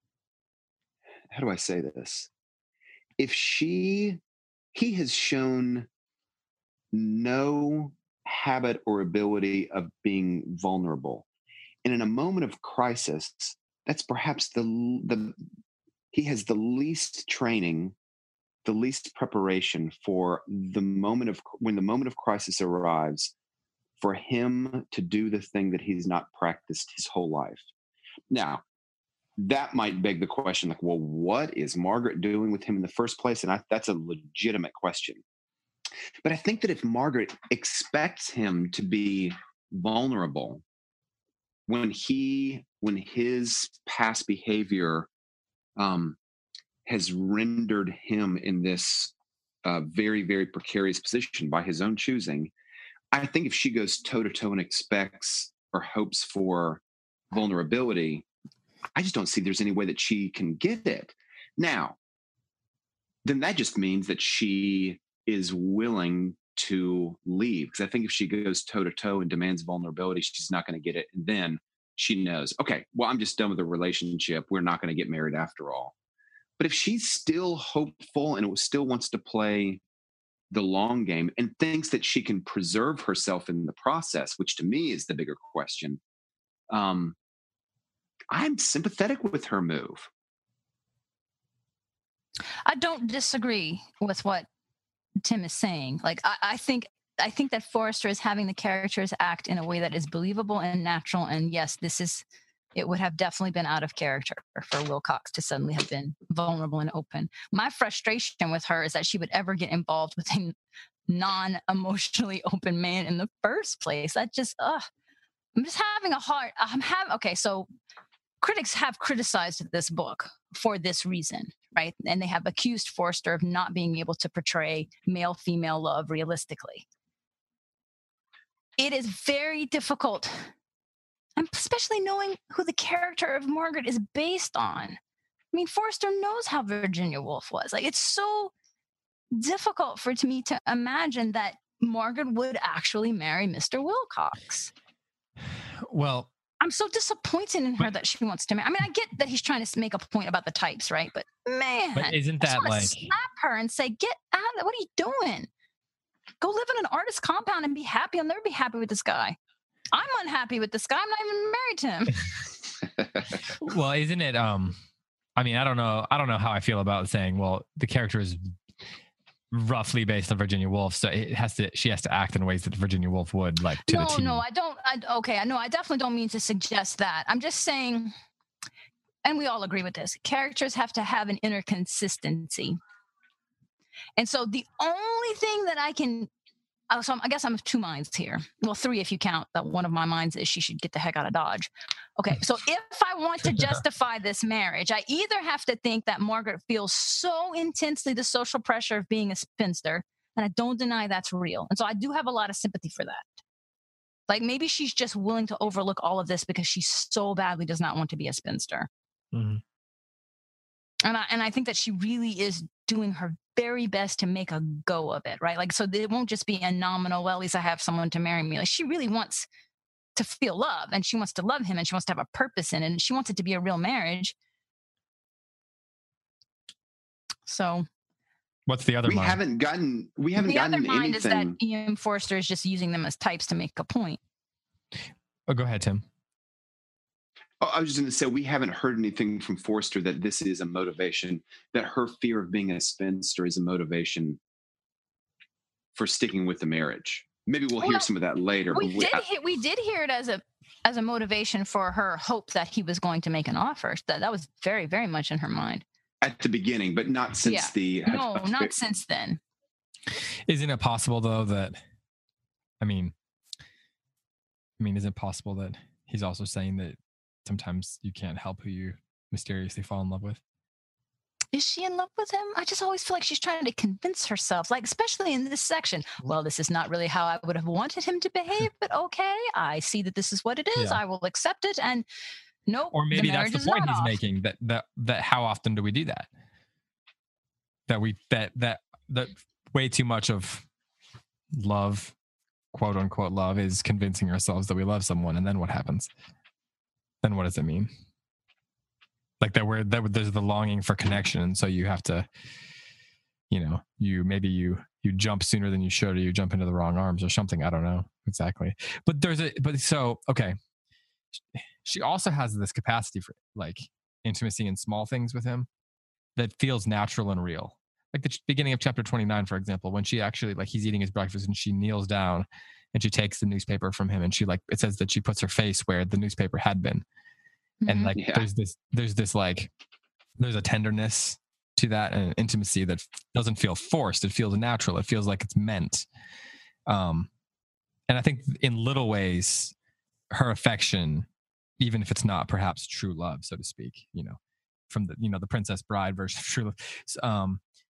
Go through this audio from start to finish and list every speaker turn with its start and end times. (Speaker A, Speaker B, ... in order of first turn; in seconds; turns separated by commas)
Speaker A: 1.3-2.3, Speaker A: 3.2-4.2, Speaker A: 4.7-5.9, Speaker A: 6.9-11.3, Speaker A: 11.8-15.4, Speaker A: 16.1-18.0, Speaker A: 18.6-23.3, Speaker A: 24.0-27.6, Speaker A: 28.3-28.6, Speaker A: 29.4-35.2, Speaker A: 36.2-40.6, Speaker A: 41.7-45.1, Speaker A: 45.8-46.2, Speaker A: 46.9-49.1, Speaker A: 49.6-52.5, Speaker A: 53.1-58.3, Speaker A: 59.0-62.0, Speaker A: 63.2-75.9, Speaker A: 76.6-79.8, Speaker A: 80.5-86.0, Speaker A: 86.7-87.2, Speaker A: 88.3-90.1, Speaker B: 92.7-94.5, Speaker B: 95.2-102.2, Speaker B: 102.8-110.5, Speaker B: 111.1-114.9, Speaker B: 115.6-117.7, Speaker B: 118.4-126.8, Speaker B: 128.8-130.5, Speaker B: 131.4-135.0, Speaker B: 135.5-138.5, Speaker B: 139.3-144.7, Speaker C: 145.8-146.3, Speaker B: 146.6-155.5, Speaker C: 151.9-153.0, Speaker B: 156.4-159.4, Speaker B: 159.9-162.2, Speaker C: 163.6-164.8, Speaker C: 165.4-168.5, Speaker C: 169.5-174.4, Speaker B: 173.9-178.1, Speaker B: 179.2-182.8, Speaker B: 184.2-186.3, Speaker B: 186.9-203.3, Speaker B: 204.3-208.9, Speaker C: 209.3-209.6, Speaker B: 211.0-219.5, Speaker B: 220.2-224.3, Speaker B: 227.5-227.9, Speaker C: 228.7-229.4, Speaker A: 229.1-231.6, Speaker B: 230.4-234.2, Speaker C: 235.5-236.0, Speaker A: 237.6-244.4, Speaker A: 245.9-249.2, Speaker B: 247.8-248.1, Speaker B: 248.7-255.8, Speaker A: 256.2-258.7, Speaker B: 257.4-259.4, Speaker C: 260.5-261.8, Speaker C: 262.8-263.1, Speaker C: 264.8-270.4, Speaker B: 271.5-282.1, Speaker B: 282.7-284.1, Speaker C: 282.9-286.3, Speaker C: 287.9-290.7, Speaker C: 291.5-292.1, Speaker C: 292.7-296.1, Speaker C: 297.2-297.9, Speaker C: 299.4-302.3, Speaker C: 303.5-310.6, Speaker C: 311.4-315.7, Speaker C: 316.4-327.0, Speaker B: 327.8-328.1, Speaker C: 327.9-329.7, Speaker A: 328.1-328.5, Speaker C: 330.4-336.1, Speaker C: 336.9-337.3, Speaker C: 338.1-339.7, Speaker C: 340.3-341.3, Speaker C: 341.8-344.4, Speaker C: 344.9-347.6